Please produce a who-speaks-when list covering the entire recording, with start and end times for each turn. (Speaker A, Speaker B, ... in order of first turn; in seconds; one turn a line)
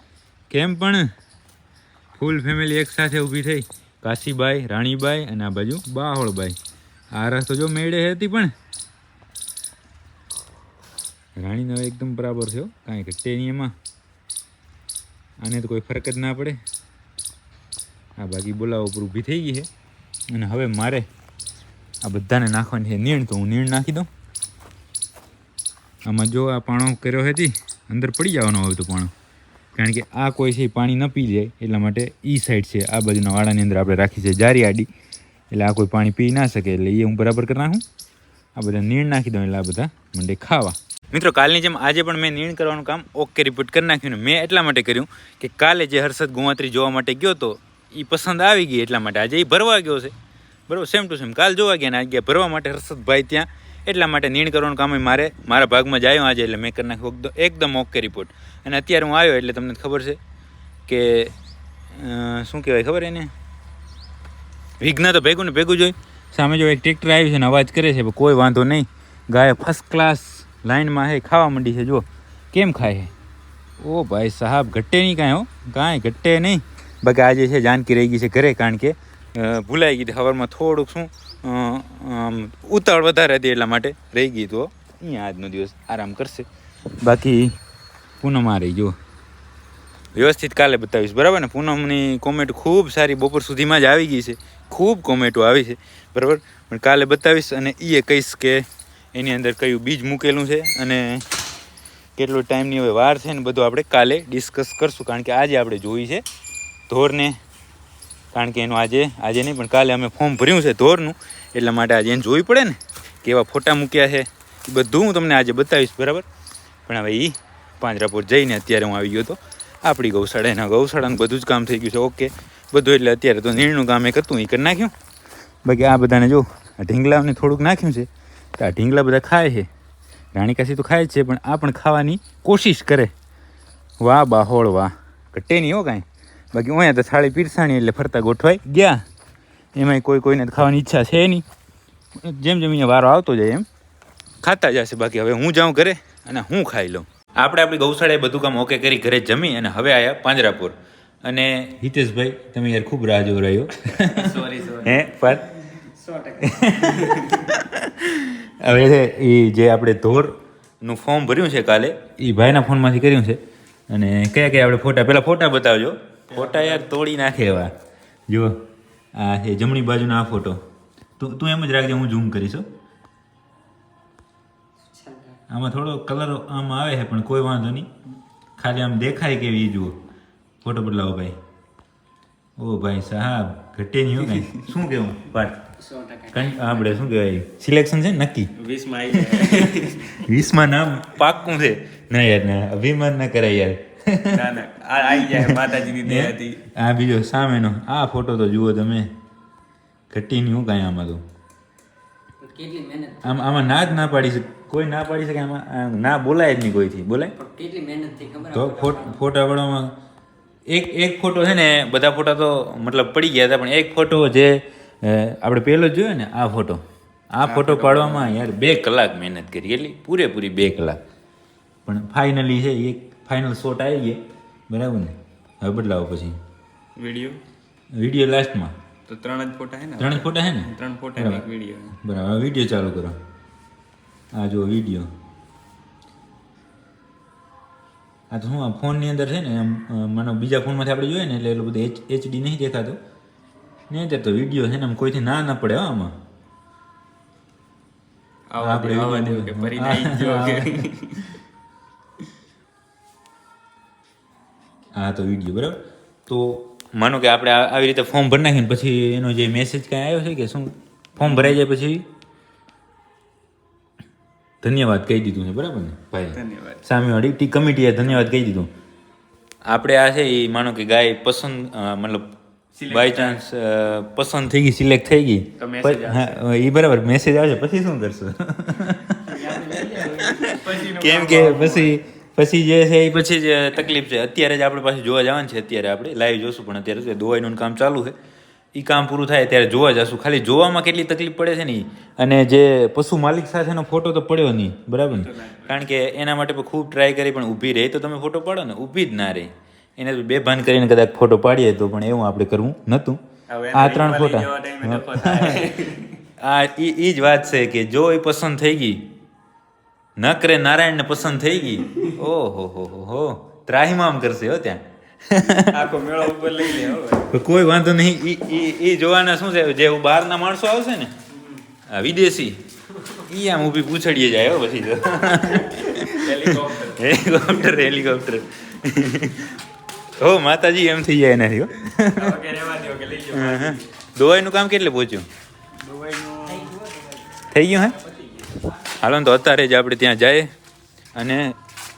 Speaker A: 0.5-1.1
Speaker A: 2.1-6.6
Speaker A: 7.1-8.5
Speaker A: 11.4-13.7
Speaker A: 15.4-16.6
Speaker A: 18.2-19.7
Speaker A: 20.3-21.1
Speaker A: 22.0-24.1
Speaker A: 26.0-29.1
Speaker A: 29.8-34.9
Speaker A: 35.5-37.8
Speaker A: 38.5-50.1
Speaker A: 50.7-60.2
Speaker A: 60.9-61.3
Speaker A: 61.9-63.3
Speaker A: 64.8-73.1
Speaker A: 73.8-86.5
Speaker A: 87.0-87.5
Speaker A: 88.2-89.0
Speaker A: 90.1-101.2
Speaker A: 102.2-106.2
Speaker A: 106.9-107.4
Speaker A: 108.3-116.2
Speaker A: 116.9-124.9
Speaker A: 125.6-129.7
Speaker A: 130.3-133.1
Speaker A: 134.0-139.0
Speaker A: 139.7-141.4
Speaker A: 142.2-143.6
Speaker A: 144.4-155.5
Speaker B: 153.9-155.4
Speaker C: 156.1-156.4
Speaker A: 156.4-167.7
Speaker B: 156.9-157.4
Speaker B: 166.3-166.8
Speaker A: 168.3-168.6
Speaker A: 169.1-170.6
Speaker A: 171.2-172.7
Speaker C: 174.9-175.4
Speaker A: 175.5-177.9
Speaker A: 178.6-180.0
Speaker A: 180.6-181.4
Speaker A: 182.6-185.7
Speaker C: 185.8-187.1
Speaker A: 186.3-188.5
Speaker B: 188.6-190.3
Speaker A: 189.1-194.5
Speaker B: 194.3-196.6
Speaker A: 195.2-199.1
Speaker A: 200.1-201.2
Speaker C: 202.4-203.4
Speaker A: 203.2-207.3
Speaker C: 207.4-209.2
Speaker A: 208.5-209.9
Speaker A: 210.7-221.0
Speaker B: 217.4-218.4
Speaker A: 221.8-226.4
Speaker B: 226.9-227.4
Speaker A: 227.9-228.8
Speaker B: 229.1-231.9
Speaker A: 230.0-231.4
Speaker A: 232.0-233.2
Speaker A: 234.3-235.1
Speaker A: 238.3-243.0
Speaker A: 243.9-246.2
Speaker B: 248.5-251.2
Speaker A: 248.6-250.8
Speaker A: 254.9-262.1
Speaker B: 261.2-261.6
Speaker A: 264.6-268.7
Speaker B: 266.3-266.8
Speaker A: 269.6-272.4
Speaker B: 272.7-273.4
Speaker A: 272.9-288.1
Speaker B: 275.6-276.4
Speaker B: 279.2-281.9
Speaker A: 288.7-303.2
Speaker B: 295.1-295.8
Speaker B: 303.5-306.2
Speaker A: 303.7-305.7
Speaker A: 306.4-309.1
Speaker A: 310.2-315.8
Speaker B: 315.7-317.3
Speaker A: 317.3-321.1
Speaker B: 321.3-321.6
Speaker A: 321.9-322.6
Speaker A: 323.3-329.6
Speaker B: 325.7-327.1
Speaker A: 330.2-332.4
Speaker B: 332.1-333.9
Speaker A: 333.3-335.3
Speaker B: 335.8-336.8
Speaker A: 337.5-338.0
Speaker B: 338.0-338.4
Speaker A: 339.0-340.5
Speaker A: 341.1-341.6